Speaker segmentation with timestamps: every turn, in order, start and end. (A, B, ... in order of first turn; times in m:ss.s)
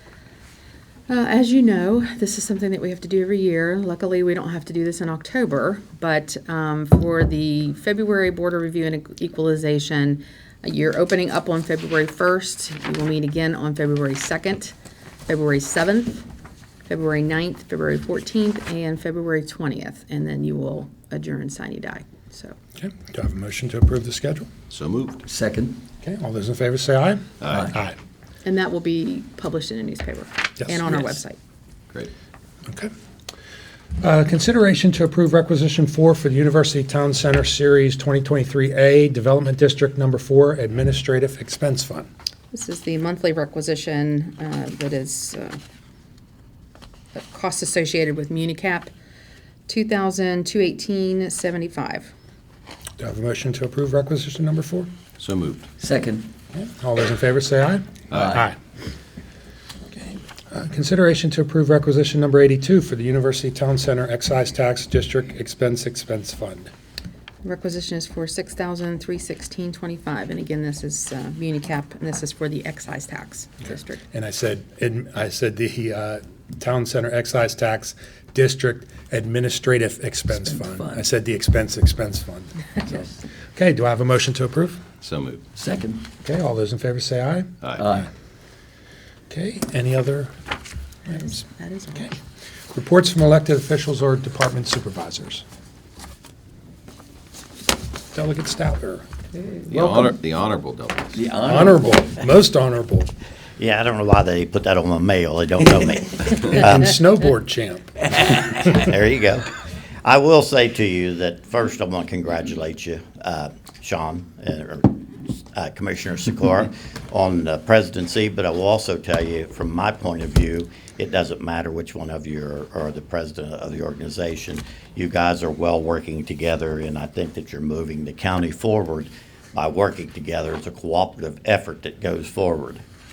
0:01.1-0:14.7 A
0:15.3-0:16.2 A
0:16.9-0:22.6 A
0:22.8-0:24.5 B
0:24.7-0:25.2 C
0:25.2-0:25.8 D
0:26.0-0:28.0 B
0:27.4-0:27.7 C
0:27.5-0:27.7 D
0:28.4-0:31.4 A
0:30.6-0:31.0 B
0:32.7-0:32.9 B
0:34.0-0:42.1 B
0:42.5-0:45.6 A
0:47.2-0:48.9 A
0:49.7-0:52.1 A
0:53.0-0:54.9 B
0:55.2-0:55.7 C
0:55.8-0:56.3 D
0:56.5-0:58.6 B
0:58.1-0:58.4 C
0:58.1-0:58.4 D
1:00.5-1:06.7 B
1:07.4-1:14.0 A
1:14.1-1:23.0 B
1:20.3-1:21.0 D
1:23.6-1:24.8 B
1:25.0-1:25.4 C
1:25.6-1:26.0 D
1:26.2-1:27.5 B
1:27.6-1:27.9 C
1:27.8-1:28.1 D
1:29.3-1:30.3 B
1:31.1-1:31.4 B
1:31.1-1:32.1 A
1:32.7-1:35.4 B
1:38.1-1:39.0 B
1:39.5-1:40.1 D
1:39.7-1:41.2 C
1:41.1-1:42.2 D
1:41.5-1:43.1 B
1:43.6-1:46.9 E
1:46.5-1:48.3 B
1:48.6-2:12.8 E